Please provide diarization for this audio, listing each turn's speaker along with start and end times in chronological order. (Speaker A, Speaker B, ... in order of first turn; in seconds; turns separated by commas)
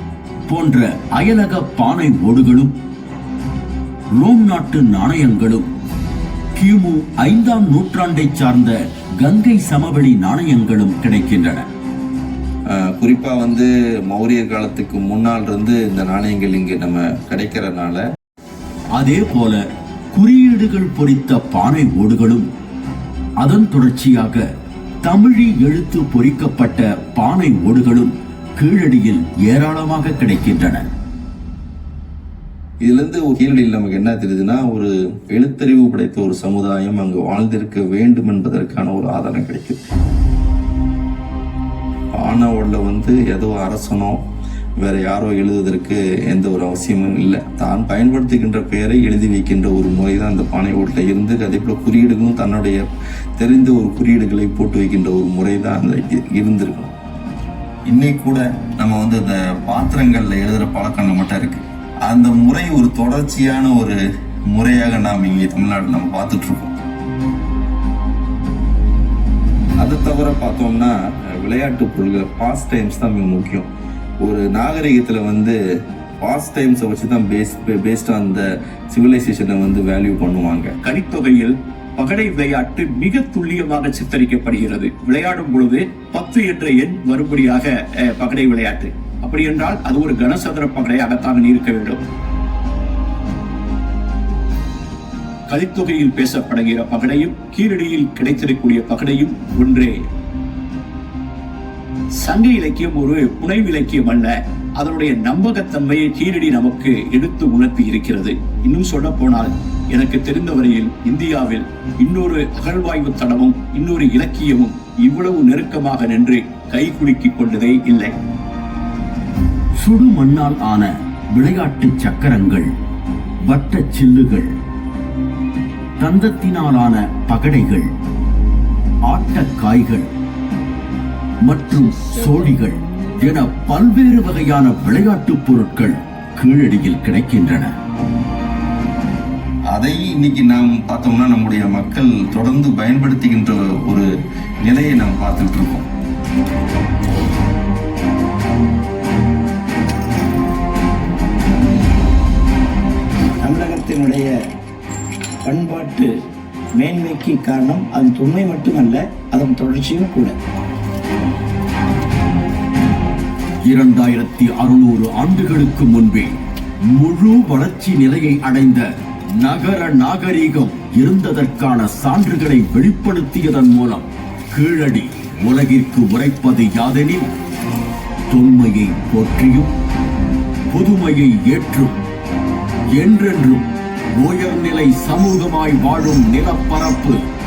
Speaker A: 0.5-2.7, Speaker A: 4.2-5.7, Speaker A: 6.5-11.7, Speaker B: 12.8-18.0, Speaker A: 19.0-22.5, Speaker A: 23.4-24.4, Speaker A: 25.0-30.9, Speaker B: 32.8-39.8, Speaker B: 42.1-44.2, Speaker B: 44.8-52.8, Speaker B: 53.4-56.9, Speaker B: 57.9-64.0, Speaker B: 64.5-66.7, Speaker B: 69.8-73.7, Speaker B: 74.2-75.5, Speaker B: 76.2-80.7, Speaker C: 80.8-92.0, Speaker C: 95.5-100.0, Speaker C: 102.2-118.1, Speaker A: 119.8-122.7, Speaker A: 123.5-124.5, Speaker A: 126.0-127.9, Speaker A: 129.1-130.1, Speaker A: 131.4-137.7, Speaker B: 139.7-144.1, Speaker B: 144.7-145.9, Speaker D: 153.4-154.3, Speaker D: 155.4-156.1, Speaker D: 156.8-160.3, Speaker A: 163.7-166.3, Speaker A: 166.9-168.9, Speaker A: 169.4-177.3, Speaker A: 178.3-179.7, Speaker A: 180.7-182.0, Speaker A: 182.9-183.7, Speaker A: 184.2-187.2